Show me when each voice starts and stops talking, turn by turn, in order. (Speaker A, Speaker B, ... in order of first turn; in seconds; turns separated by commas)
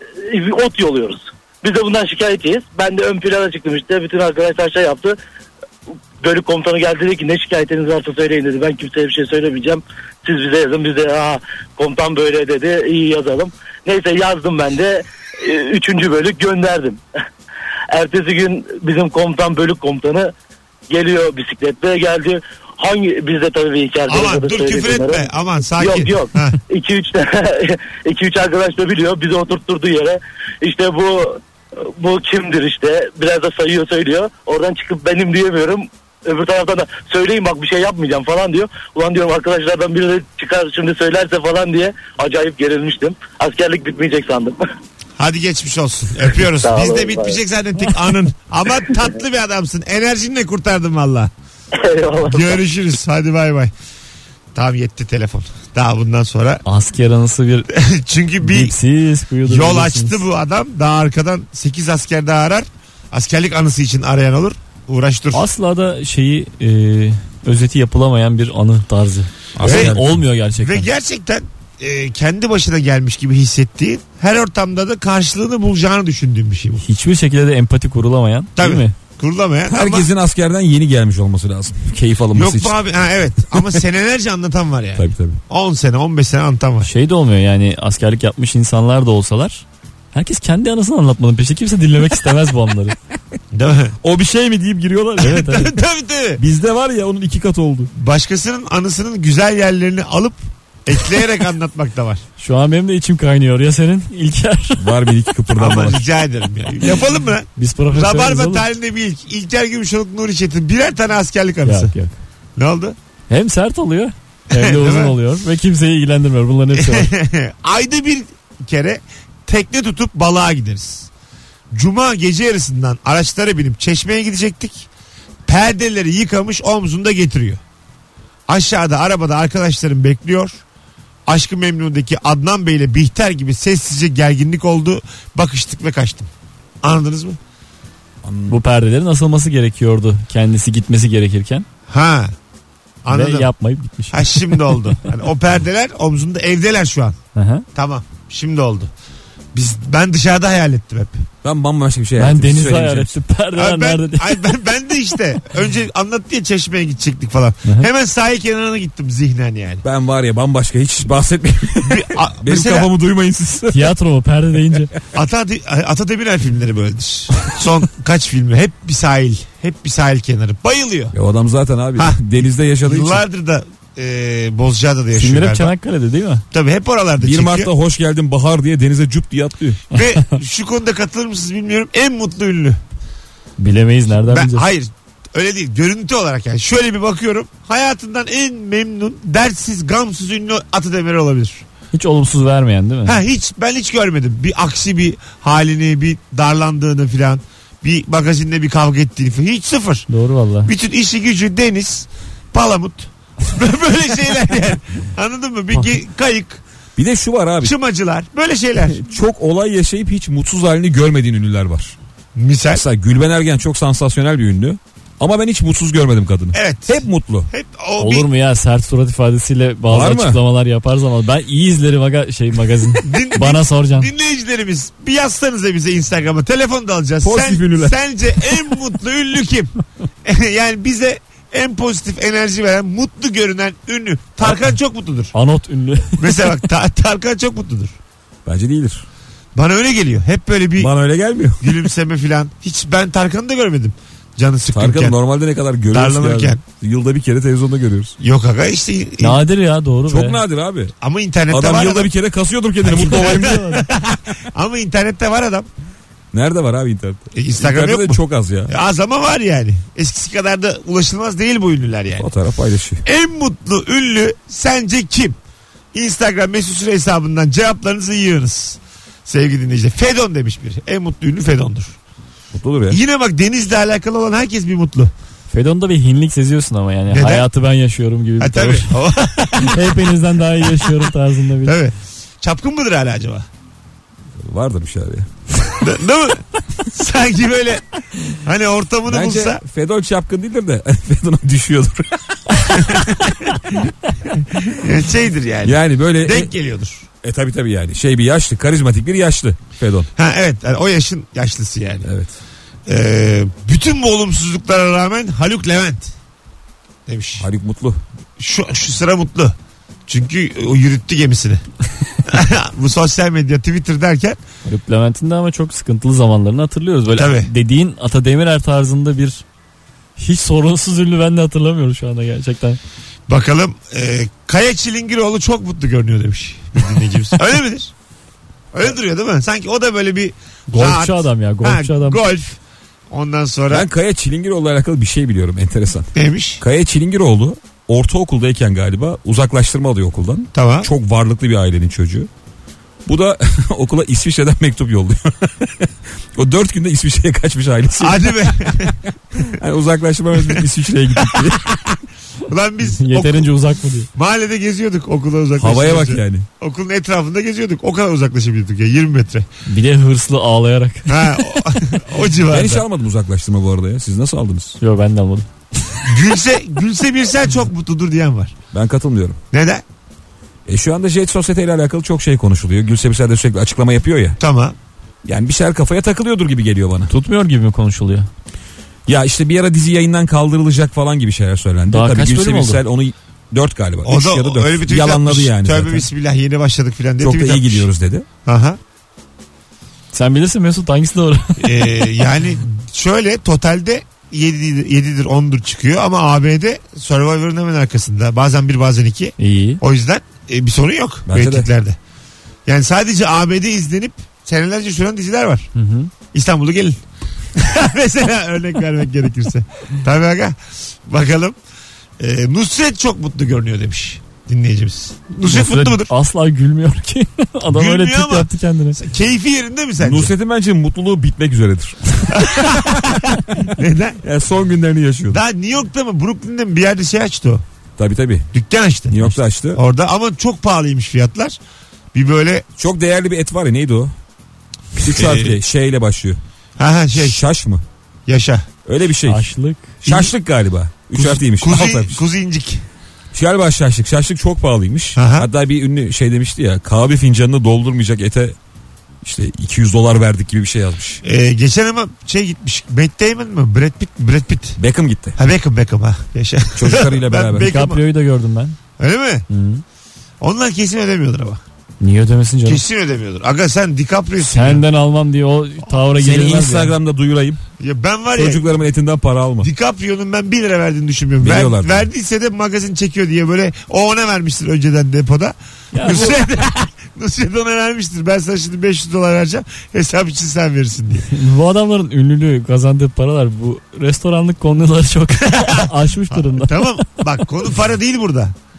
Speaker A: 0.2-5.2, Speaker A: 6.2-17.0, Speaker A: 17.9-20.3, Speaker A: 20.9-25.3, Speaker B: 24.1-26.6, Speaker A: 25.8-44.6, Speaker B: 45.2-51.3, Speaker A: 46.6-47.4, Speaker A: 51.7-52.6, Speaker B: 52.2-53.7, Speaker B: 54.5-56.6, Speaker C: 56.6-57.7, Speaker B: 57.7-58.7, Speaker C: 58.4-60.2, Speaker B: 59.4-65.5, Speaker C: 65.3-70.9, Speaker D: 69.5-70.2, Speaker B: 69.6-70.0, Speaker B: 70.6-76.8, Speaker C: 76.8-78.9, Speaker B: 78.6-80.1, Speaker D: 79.7-82.8, Speaker B: 82.3-86.9, Speaker D: 85.0-85.4, Speaker C: 86.8-93.0, Speaker B: 93.5-93.9, Speaker D: 94.0-95.7, Speaker C: 95.2-95.7, Speaker B: 95.2-96.4, Speaker D: 96.4-97.9, Speaker B: 97.9-102.2, Speaker C: 102.4-105.3, Speaker D: 104.8-106.0, Speaker B: 105.5-111.9, Speaker C: 107.6-108.7, Speaker C: 111.6-112.2, Speaker B: 112.6-113.0, Speaker C: 113.3-117.1, Speaker B: 114.5-115.2, Speaker B: 116.7-121.1, Speaker B: 121.7-124.9, Speaker B: 125.5-127.6, Speaker B: 128.5-130.6, Speaker B: 131.3-136.3, Speaker B: 136.8-137.4, Speaker D: 138.2-138.6, Speaker C: 138.5-141.7, Speaker B: 141.9-142.3, Speaker B: 143.0-143.5, Speaker C: 143.1-144.8, Speaker B: 144.1-147.2, Speaker C: 147.3-147.6, Speaker B: 147.7-148.9, Speaker B: 149.5-151.2, Speaker D: 151.4-153.2, Speaker C: 152.2-154.5, Speaker B: 153.5-159.8, Speaker D: 159.8-163.9, Speaker B: 161.8-162.9, Speaker C: 163.7-164.9, Speaker B: 165.1-171.1, Speaker D: 171.1-173.2, Speaker B: 171.9-175.7, Speaker C: 175.1-176.4, Speaker B: 176.5-177.7, Speaker D: 177.2-179.8, Speaker B: 179.9-182.8, Speaker C: 183.6-184.7, Speaker B: 184.2-191.6, Speaker C: 191.9-193.2, Speaker B: 193.1-200.1, Speaker C: 200.1-200.7, Speaker B: 200.6-206.6, Speaker D: 207.0-207.7, Speaker B: 207.6-209.0, Speaker D: 208.8-211.9, Speaker B: 212.3-212.8, Speaker D: 212.7-217.5, Speaker B: 216.5-218.3, Speaker C: 218.0-224.1, Speaker D: 219.9-220.4, Speaker B: 223.0-229.7, Speaker D: 227.2-227.9, Speaker B: 230.2-235.3, Speaker C: 235.3-236.3, Speaker B: 236.2-237.9, Speaker D: 238.4-239.0, Speaker B: 239.5-240.9, Speaker D: 240.8-241.8, Speaker B: 241.6-245.2, Speaker D: 244.7-248.1, Speaker B: 245.9-246.6, Speaker B: 248.2-249.4, Speaker C: 249.2-250.4, Speaker D: 250.1-250.9, Speaker B: 251.0-252.1, Speaker D: 251.5-253.6, Speaker C: 252.9-253.8, Speaker B: 253.0-255.7, Speaker D: 256.3-258.7, Speaker B: 257.3-262.3, Speaker D: 262.2-263.0, Speaker B: 263.0-265.4, Speaker B: 265.9-271.9, Speaker D: 272.5-273.0, Speaker B: 272.9-275.1, Speaker C: 275.5-278.9, Speaker B: 277.1-277.5, Speaker B: 278.4-280.1, Speaker C: 279.6-281.8, Speaker B: 281.6-283.5, Speaker D: 284.4-285.7, Speaker B: 285.8-289.6, Speaker D: 289.1-293.4, Speaker B: 292.9-293.2, Speaker B: 294.6-297.0, Speaker D: 295.6-296.5, Speaker D: 297.2-300.1, Speaker B: 300.1-302.1, Speaker D: 302.0-302.3, Speaker B: 302.9-306.1, Speaker B: 307.1-307.4, Speaker D: 307.4-308.0, Speaker B: 308.4-309.5, Speaker B: 310.1-311.6, Speaker B: 312.2-314.4, Speaker C: 314.6-319.4, Speaker B: 317.1-317.5, Speaker C: 320.2-322.8, Speaker B: 323.3-327.9, Speaker B: 328.7-332.6, Speaker C: 330.7-332.2, Speaker B: 333.1-333.9, Speaker D: 333.7-336.1, Speaker B: 336.1-336.6, Speaker D: 336.6-342.3, Speaker B: 340.5-340.9, Speaker D: 343.1-348.6, Speaker B: 348.0-349.0, Speaker D: 349.4-351.8, Speaker B: 350.4-350.6, Speaker B: 351.2-351.9, Speaker B: 352.5-353.5, Speaker C: 352.9-354.1, Speaker B: 354.1-359.5, Speaker D: 355.6-356.4, Speaker C: 359.7-361.4, Speaker B: 361.1-362.8, Speaker D: 362.5-364.8, Speaker C: 364.8-366.0, Speaker B: 366.1-368.6, Speaker D: 368.7-369.4, Speaker B: 369.5-369.8, Speaker D: 370.6-374.4, Speaker B: 374.4-374.8, Speaker D: 375.2-377.1, Speaker C: 377.1-378.3, Speaker D: 379.1-386.0, Speaker C: 381.9-382.8, Speaker B: 384.0-387.9, Speaker D: 387.2-388.2, Speaker B: 388.4-388.8, Speaker C: 390.1-392.0, Speaker B: 391.6-402.0, Speaker C: 399.4-399.8, Speaker D: 401.3-401.7, Speaker B: 402.6-405.7, Speaker C: 405.7-406.1, Speaker B: 406.3-407.0, Speaker B: 407.5-411.6, Speaker B: 412.2-416.1, Speaker C: 415.4-419.0, Speaker B: 417.7-420.3, Speaker D: 420.0-423.7, Speaker B: 422.3-424.2, Speaker D: 424.2-425.4, Speaker B: 425.3-427.6, Speaker D: 428.0-428.5, Speaker B: 428.5-431.6, Speaker D: 429.1-429.8, Speaker B: 432.1-432.6, Speaker D: 432.8-434.1, Speaker D: 435.0-436.4, Speaker B: 435.1-435.6, Speaker B: 436.8-437.4, Speaker D: 437.1-437.8, Speaker B: 438.3-438.7, Speaker D: 438.8-439.4, Speaker C: 439.2-439.9, Speaker D: 440.0-442.1, Speaker B: 440.0-440.3, Speaker B: 441.1-442.8, Speaker D: 443.3-448.5, Speaker B: 445.1-445.5, Speaker D: 449.2-451.2, Speaker B: 451.2-454.8, Speaker D: 454.8-455.4, Speaker B: 455.4-458.0, Speaker D: 456.8-457.7, Speaker C: 457.6-458.8, Speaker B: 459.0-459.4, Speaker C: 459.5-459.8, Speaker B: 460.4-461.6, Speaker C: 462.0-462.8, Speaker B: 462.6-464.8, Speaker C: 464.4-467.0, Speaker D: 466.1-467.6, Speaker B: 467.8-468.6, Speaker D: 468.3-469.7, Speaker B: 469.6-481.3, Speaker D: 471.4-472.1, Speaker C: 475.9-476.4, Speaker C: 481.3-487.1, Speaker B: 485.4-488.5